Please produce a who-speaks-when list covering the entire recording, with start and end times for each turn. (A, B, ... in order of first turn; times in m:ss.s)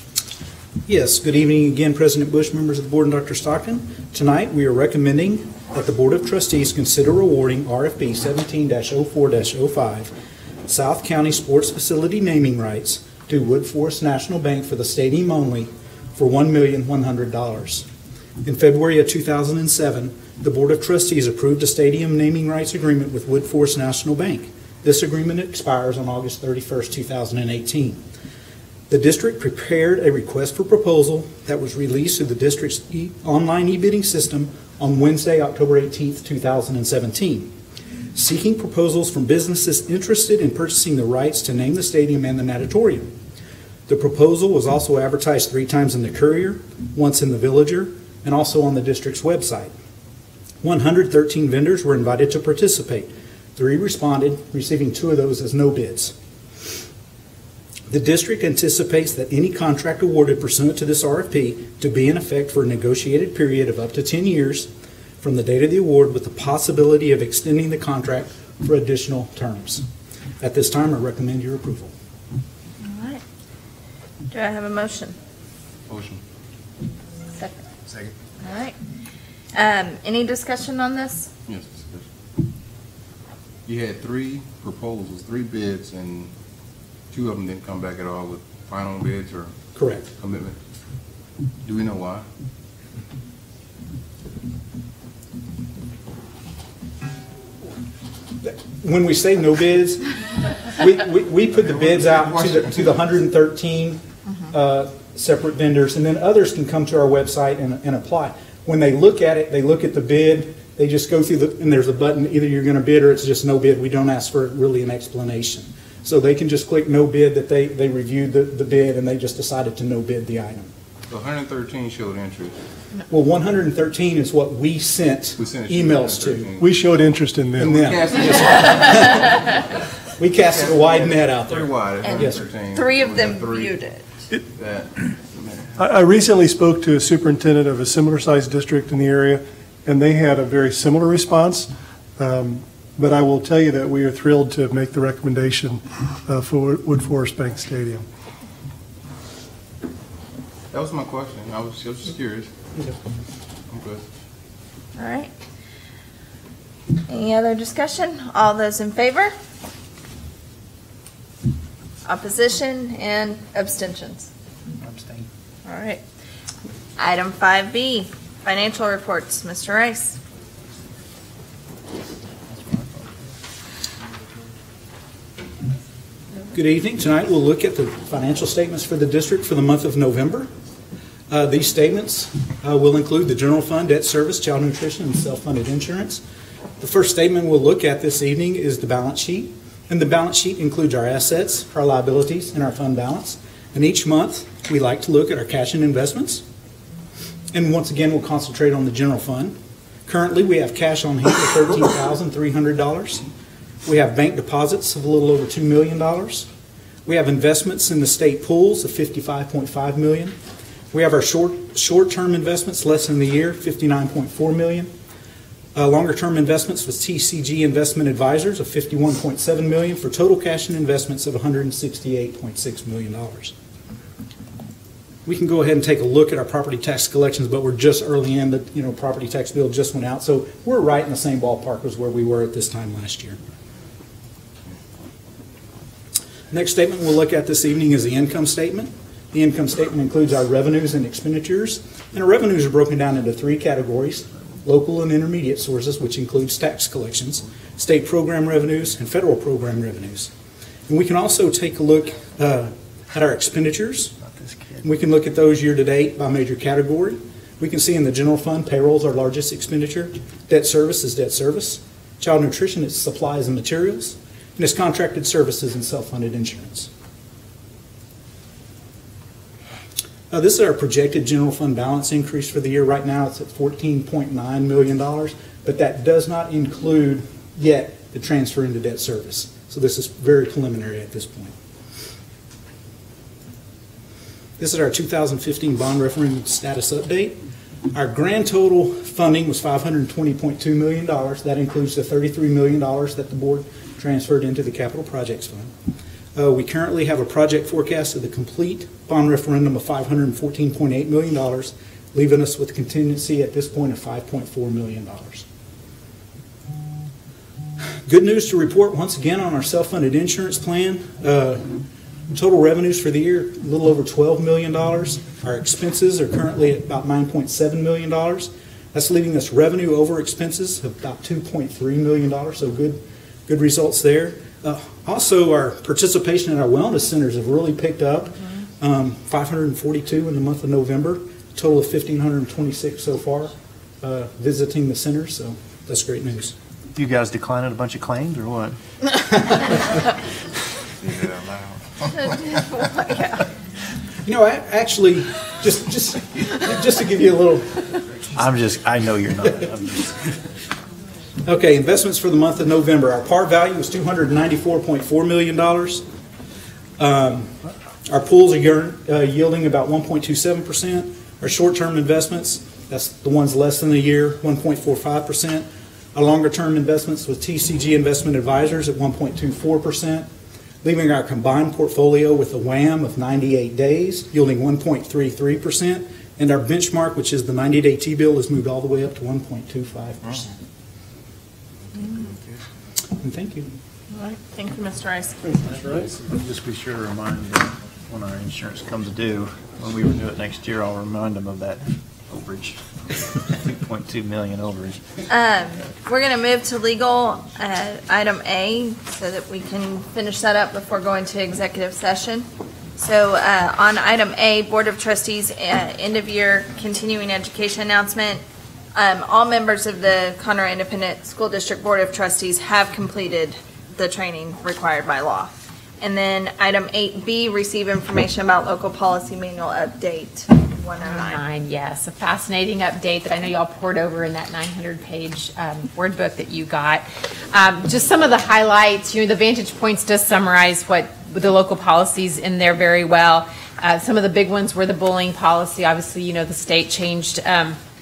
0:00.9-0:10.1 A
0:10.7-0:17.9 A
0:18.4-0:28.0 A
0:28.9-0:37.5 A
0:38.1-0:43.1 A
0:43.9-0:49.7 A
0:50.6-0:56.2 A
0:57.9-1:04.7 A
1:05.2-1:09.9 A
1:10.4-1:11.9 A
1:12.8-1:13.2 B
1:14.3-1:15.2 B
1:15.9-1:16.2 C
1:17.4-1:17.6 B
1:18.4-1:18.8 B
1:19.6-1:21.3 B
1:21.5-1:22.1 C
1:23.7-1:26.3 C
1:27.1-1:29.6 C
1:29.8-1:30.1 A
1:30.2-1:30.6 C
1:31.6-1:32.2 C
1:38.4-1:40.0 A
1:40.7-2:00.7 A
1:41.8-1:42.7 C
2:01.1-2:02.6 C
2:03.1-2:06.6 A
2:05.4-2:09.4 C
2:06.6-2:07.9 D
2:07.6-2:09.4 A
2:10.2-2:12.4 A
2:10.4-2:13.8 C
2:12.0-2:14.0 B
2:14.4-2:15.8 C
2:15.8-2:28.1 D
2:30.7-2:32.5 C
2:33.7-2:34.0 C
2:35.0-2:35.3 B
2:37.1-2:39.3 B
2:42.1-2:44.3 B
2:44.8-2:45.3 E
2:45.7-2:46.0 B
2:47.0-2:50.2 B
2:52.5-2:53.1 E
2:56.5-3:00.5 A
3:01.3-3:06.2 A
3:06.8-3:16.4 A
3:17.5-3:23.3 A
3:23.8-3:26.5 A
3:27.1-3:30.4 A
3:30.9-3:34.9 A
3:35.8-3:43.5 A
3:45.2-3:53.4 A
3:56.5-4:10.3 A
4:10.9-4:14.2 A
4:14.3-4:14.8 E
4:14.8-4:26.9 A
4:30.3-4:41.6 A
4:44.6-4:47.4 A
4:47.9-4:55.7 A
4:56.4-5:05.5 A
5:08.1-5:11.8 A
5:12.3-5:36.6 A
5:37.0-5:38.8 E
5:41.0-5:41.9 C
5:42.2-5:43.4 B
5:44.2-5:47.8 A
5:48.3-5:50.1 E
5:51.4-5:56.0 A
5:57.0-6:10.3 A
6:10.8-6:20.6 A
6:22.0-6:22.3 B
6:22.1-6:22.6 C
6:23.2-6:23.7 A
6:24.1-6:25.7 B
6:25.5-6:25.9 D
6:25.8-6:35.0 E
6:35.3-6:42.5 B
6:43.0-6:48.4 B
6:49.0-7:01.4 B
7:01.0-7:17.8 F